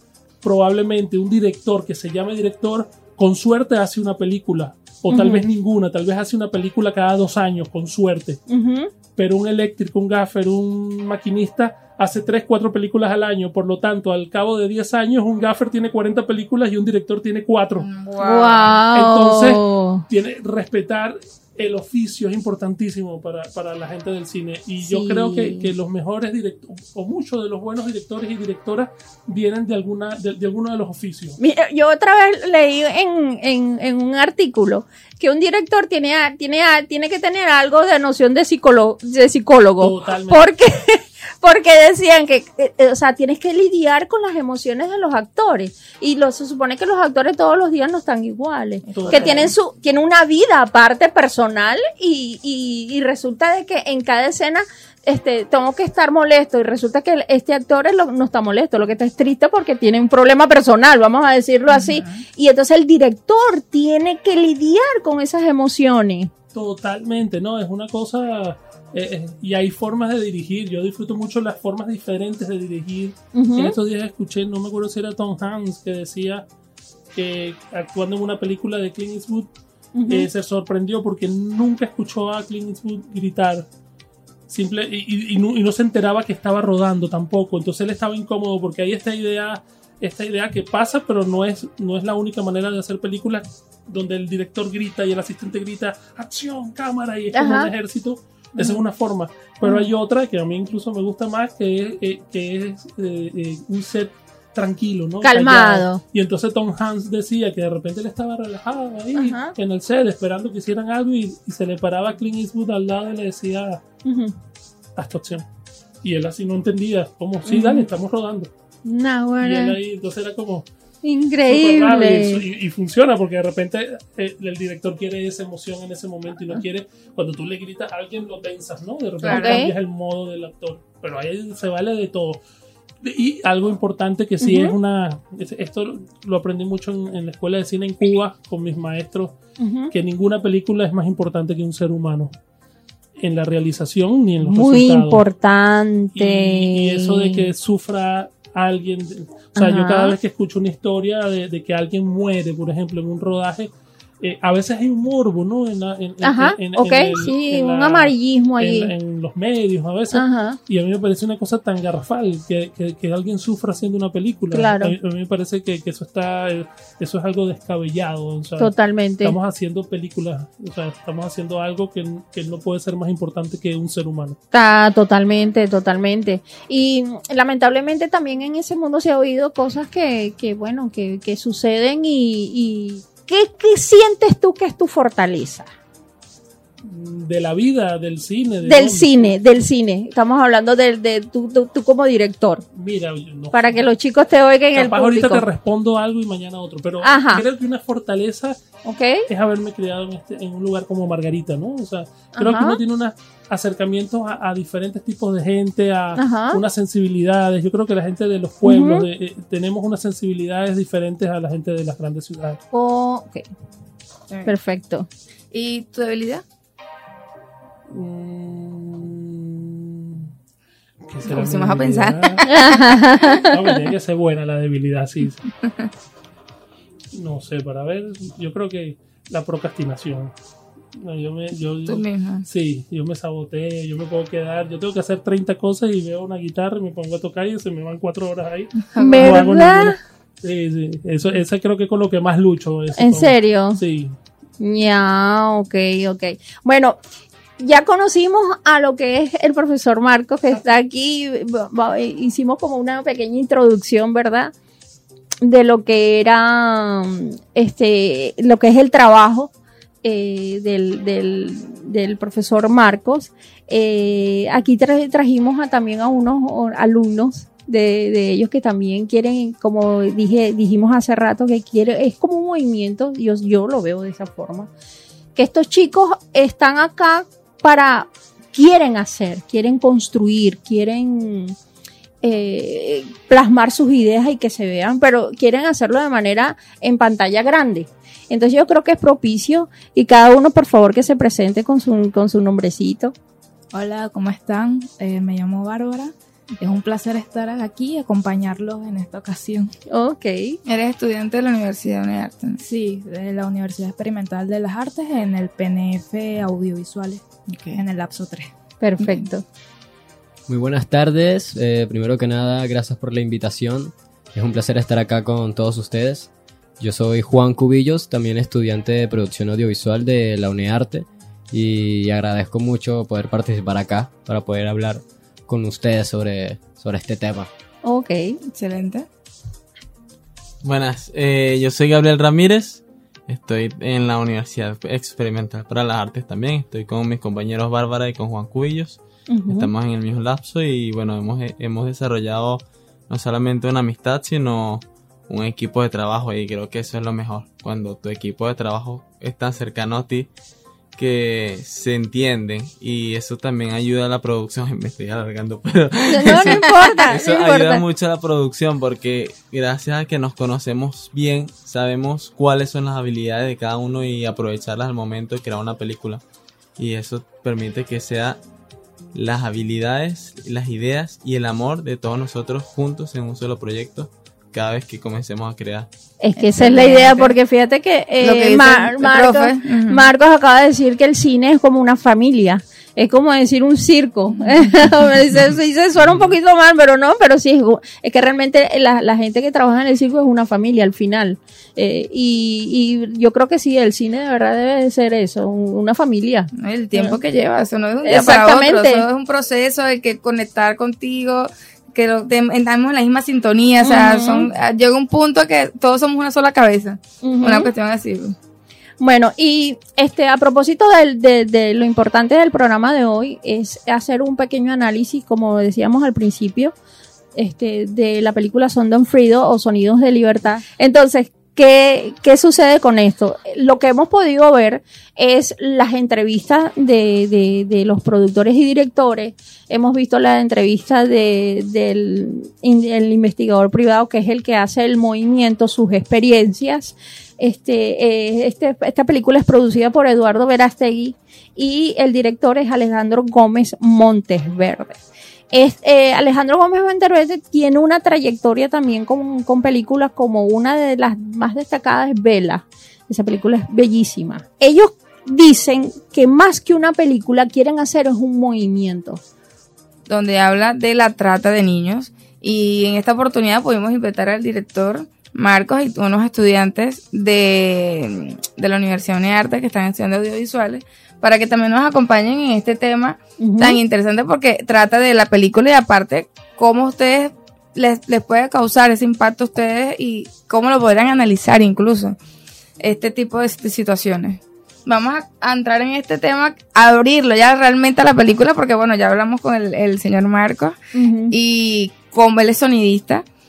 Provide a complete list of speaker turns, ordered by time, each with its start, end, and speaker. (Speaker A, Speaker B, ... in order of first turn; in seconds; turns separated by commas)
Speaker A: 0.4-8.4, Speaker B: 5.1-5.5, Speaker B: 8.5-8.9, Speaker A: 9.2-17.9, Speaker C: 17.8-18.8, Speaker B: 18.2-20.0, Speaker A: 18.9-31.4, Speaker B: 24.8-25.7, Speaker B: 31.4-66.3, Speaker A: 39.8-40.5, Speaker C: 48.9-49.5, Speaker A: 48.9-49.5, Speaker C: 61.7-62.2, Speaker A: 66.5-76.5, Speaker B: 73.3-73.7, Speaker A: 77.1-79.5, Speaker B: 80.0-80.3, Speaker A: 80.1-83.7, Speaker A: 84.5-113.8, Speaker B: 97.3-97.7, Speaker B: 99.6-99.9, Speaker B: 105.2-106.0, Speaker B: 109.1-109.5, Speaker B: 114.0-114.3, Speaker A: 115.0-115.4, Speaker A: 116.0-118.5, Speaker B: 117.5-117.9, Speaker B: 118.8-119.8, Speaker A: 119.4-120.7, Speaker B: 121.0-122.4, Speaker A: 121.5-132.4, Speaker C: 129.2-129.7, Speaker B: 129.3-129.7, Speaker A: 133.0-139.3, Speaker B: 134.4-134.8, Speaker B: 139.6-139.9, Speaker A: 139.9-142.3, Speaker A: 143.2-145.2, Speaker B: 144.4-147.5, Speaker A: 146.1-174.4, Speaker B: 149.6-150.2, Speaker B: 156.2-158.9, Speaker B: 160.1-160.6, Speaker B: 164.5-164.9, Speaker B: 168.6-169.3, Speaker B: 174.5-185.7, Speaker A: 186.8-189.2, Speaker B: 188.6-192.6, Speaker A: 192.7-193.8, Speaker B: 193.5-195.4, Speaker A: 194.7-198.6, Speaker B: 197.0-197.4, Speaker B: 198.8-199.3, Speaker A: 199.3-212.6, Speaker B: 202.3-202.8, Speaker B: 206.2-206.6, Speaker B: 208.6-209.1, Speaker B: 212.7-213.4, Speaker B: 214.4-215.1, Speaker C: 215.5-216.4, Speaker A: 217.9-220.3, Speaker A: 221.1-222.6, Speaker C: 221.2-222.7, Speaker B: 222.5-223.8, Speaker A: 223.5-225.4, Speaker A: 227.1-230.3, Speaker A: 230.9-244.2, Speaker C: 231.8-232.4, Speaker C: 238.9-239.5, Speaker B: 239.0-240.0, Speaker B: 242.9-243.8, Speaker B: 244.6-247.0, Speaker B: 247.6-254.5, Speaker B: 255.4-259.5, Speaker B: 260.0-274.7, Speaker B: 275.3-281.6, Speaker B: 282.2-293.1, Speaker D: 293.7-299.7, Speaker B: 299.9-300.6, Speaker C: 300.6-302.6, Speaker D: 302.6-308.5, Speaker C: 307.5-307.8, Speaker B: 308.8-309.4, Speaker E: 310.5-316.3, Speaker E: 316.8-327.5, Speaker B: 327.8-328.4, Speaker C: 328.5-329.1, Speaker F: 330.6-350.3, Speaker B: 339.3-339.7, Speaker F: 350.9-366.2, Speaker B: 356.1-357.8, Speaker F: 366.8-368.4, Speaker F: 369.1-375.9, Speaker B: 376.2-397.2, Speaker C: 376.4-377.4, Speaker C: 378.2-380.1, Speaker C: 396.6-408.3, Speaker B: 398.0-399.1, Speaker B: 403.8-404.5, Speaker B: 407.2-407.7, Speaker B: 409.0-416.7, Speaker B: 417.3-445.0, Speaker B: 445.5-459.2, Speaker C: 460.1-482.2, Speaker B: 473.4-473.8, Speaker C: 482.8-490.8, Speaker B: 490.9-491.3, Speaker C: 491.3-493.2